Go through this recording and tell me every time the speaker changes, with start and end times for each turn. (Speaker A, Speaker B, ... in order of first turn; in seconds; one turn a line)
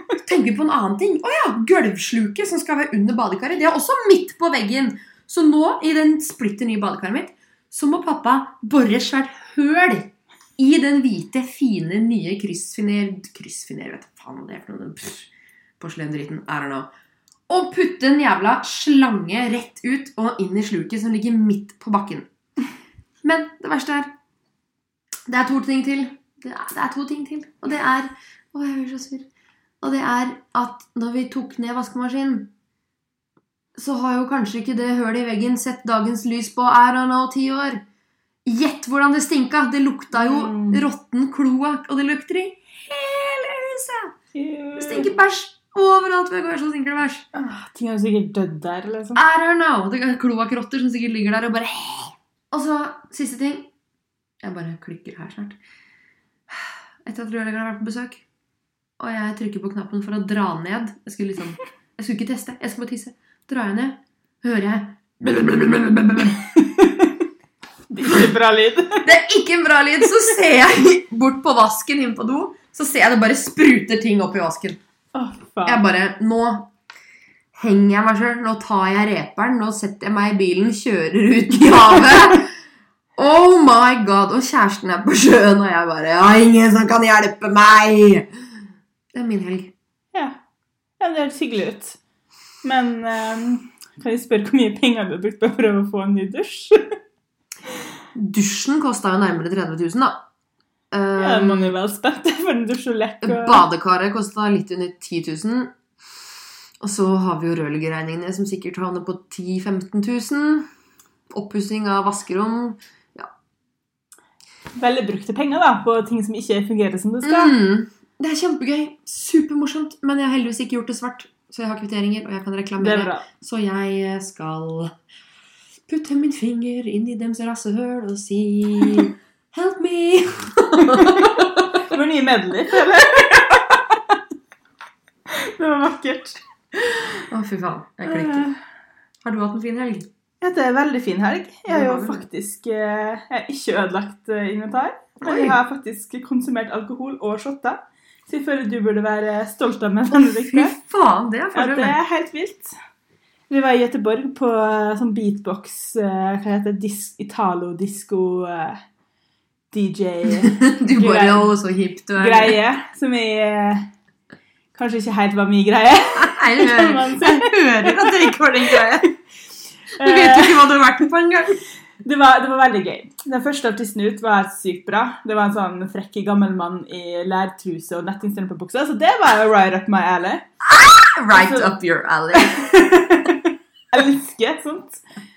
Speaker A: 0.2-16.9
Speaker A: 17.5-22.3
Speaker A: 23.2-24.1
Speaker A: 25.3-29.3
Speaker A: 29.8-32.5
Speaker A: 33.8-37.8
Speaker A: 38.5-44.1
Speaker B: 40.1-40.8
Speaker B: 44.4-45.1
Speaker A: 44.8-47.3
Speaker B: 47.3-49.2
Speaker A: 49.1-53.7
Speaker A: 54.4-55.6
Speaker A: 56.5-58.2
Speaker A: 59.0-66.5
Speaker B: 66.5-67.2
Speaker B: 67.9-69.1
Speaker A: 68.0-68.3
Speaker A: 69.0-74.8
Speaker B: 75.1-75.8
Speaker A: 75.7-76.7
Speaker A: 77.5-82.5
Speaker A: 83.2-88.3
Speaker A: 89.1-89.7
Speaker B: 91.0-92.0
Speaker B: 92.6-97.0
Speaker A: 98.1-100.2
Speaker A: 100.9-101.7
Speaker B: 101.2-103.7
Speaker A: 103.2-105.8
Speaker A: 106.8-110.7
Speaker A: 111.3-113.3
Speaker B: 114.8-117.5
Speaker A: 117.2-124.9
Speaker B: 122.8-123.3
Speaker A: 125.9-131.9
Speaker B: 130.8-134.2
Speaker B: 135.3-136.4
Speaker A: 137.3-138.5
Speaker B: 138.1-138.6
Speaker A: 139.2-140.1
Speaker B: 140.4-150.8
Speaker A: 141.7-142.2
Speaker A: 145.2-145.6
Speaker A: 150.1-152.0
Speaker B: 151.5-152.7
Speaker B: 153.5-158.8
Speaker B: 159.7-161.5
Speaker A: 160.4-162.6
Speaker B: 162.2-163.9
Speaker B: 164.7-169.1
Speaker A: 166.1-169.1
Speaker B: 170.0-170.6
Speaker A: 170.0-171.6
Speaker B: 172.0-180.4
Speaker A: 180.6-183.0
Speaker B: 181.3-181.8
Speaker B: 182.3-185.0